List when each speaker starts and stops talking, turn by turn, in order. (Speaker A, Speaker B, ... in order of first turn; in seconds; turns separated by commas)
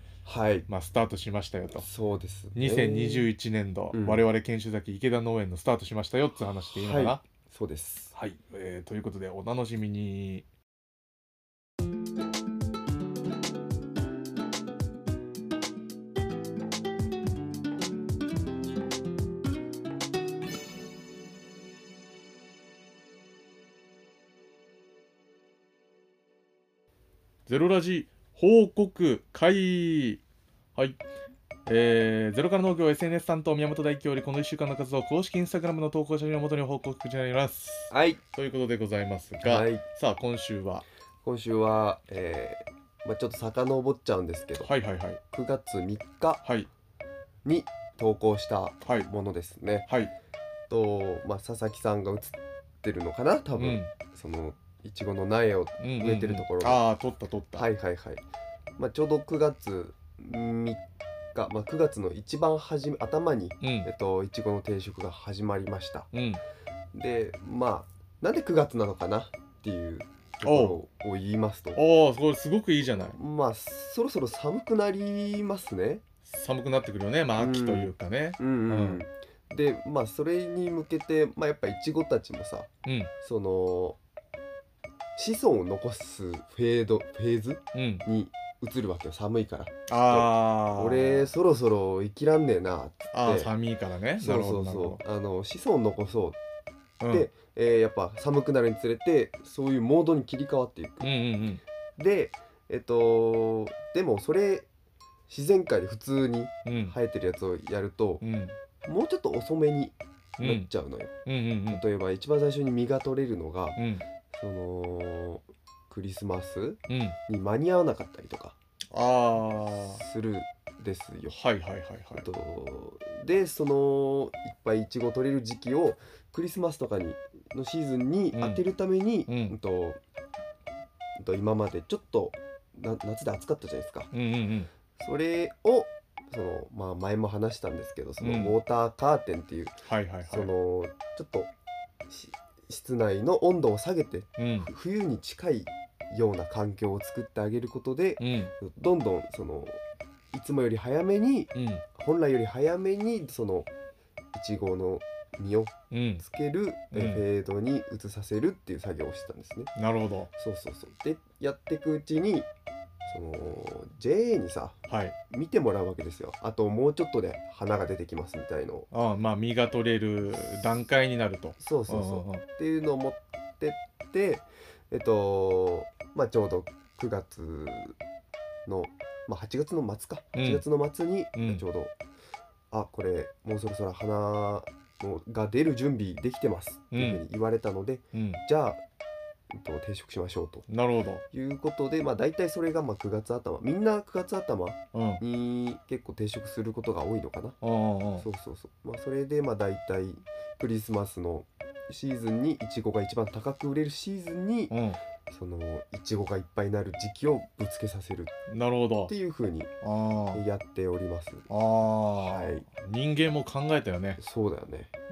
Speaker A: 0.2-0.7, Speaker B: 0.7-1.9, Speaker A: 1.7-3.3, Speaker B: 2.5-7.2, Speaker A: 3.9-4.2, Speaker A: 6.7-8.1, Speaker B: 8.1-10.4, Speaker B: 27.5-30.2, Speaker B: 31.6-40.8, Speaker A: 37.9-38.2, Speaker A: 39.4-39.8, Speaker A: 41.2-44.7, Speaker B: 44.6-45.2, Speaker A: 45.3-46.4, Speaker A: 47.4-49.9, Speaker B: 48.8-49.1, Speaker B: 49.9-50.1, Speaker A: 50.7-56.8, Speaker B: 53.6-53.9, Speaker B: 55.8-57.7, Speaker A: 57.5-58.2, Speaker A: 58.8-60.8, Speaker A: 61.3-66.1, Speaker B: 63.6-63.9, Speaker B: 66.1-66.4, Speaker A: 66.9-71.8, Speaker B: 70.4-70.8, Speaker B: 71.7-73.2, Speaker A: 73.1-76.0, Speaker B: 76.2-79.0, Speaker A: 77.4-82.7, Speaker B: 82.8-83.1, Speaker A: 83.2-84.0, Speaker A: 85.2-93.5, Speaker B: 87.7-88.0, Speaker B: 89.9-91.3, Speaker B: 93.1-95.0, Speaker A: 94.2-96.4, Speaker B: 97.0-97.3, Speaker A: 97.1-101.1, Speaker B: 101.0-101.6, Speaker A: 102.0-104.7, Speaker A: 105.3-108.2, Speaker B: 106.6-106.9, Speaker B: 108.2-108.5, Speaker A: 108.8-111.1, Speaker B: 110.4-110.7, Speaker B: 111.2-111.8, Speaker A: 111.7-113.8, Speaker B: 113.8-114.0, Speaker A: 114.3-118.5, Speaker B: 116.9-117.2, Speaker B: 118.9-120.0, Speaker A: 119.7-121.4, Speaker B: 121.3-122.2, Speaker A: 122.2-130.0, Speaker B: 128.3-128.6, Speaker B: 129.3-129.6, Speaker A: 131.2-134.1, Speaker B: 134.1-134.7, Speaker A: 135.0-141.5, Speaker B: 138.2-138.6, Speaker B: 139.8-140.5, Speaker A: 142.1-149.8, Speaker B: 144.4-144.7, Speaker B: 148.2-148.5, Speaker A: 150.3-153.7, Speaker B: 151.5-151.8, Speaker A: 154.3-159.7, Speaker B: 155.9-156.2, Speaker B: 156.9-157.2, Speaker B: 159.8-160.3, Speaker A: 160.4-162.5, Speaker A: 163.0-164.8, Speaker B: 164.9-165.1, Speaker A: 165.3-168.9, Speaker B: 168.9-172.4, Speaker A: 171.6-178.0, Speaker A: 178.7-181.9, Speaker B: 180.3-180.6, Speaker B: 181.3-181.6, Speaker A: 182.7-188.8, Speaker B: 186.9-187.2, Speaker B: 188.1-188.4, Speaker A: 189.5-190.7, Speaker B: 190.7-191.2, Speaker A: 191.3-197.6, Speaker B: 194.9-195.2, Speaker B: 197.6-198.2, Speaker A: 198.2-204.7, Speaker B: 204.7-205.0, Speaker A: 205.3-208.3, Speaker B: 208.5-209.1, Speaker A: 209.1-209.7, Speaker B: 209.8-210.4, Speaker A: 210.3-211.5, Speaker B: 211.5-214.2, Speaker A: 212.1-212.6, Speaker A: 214.2-214.9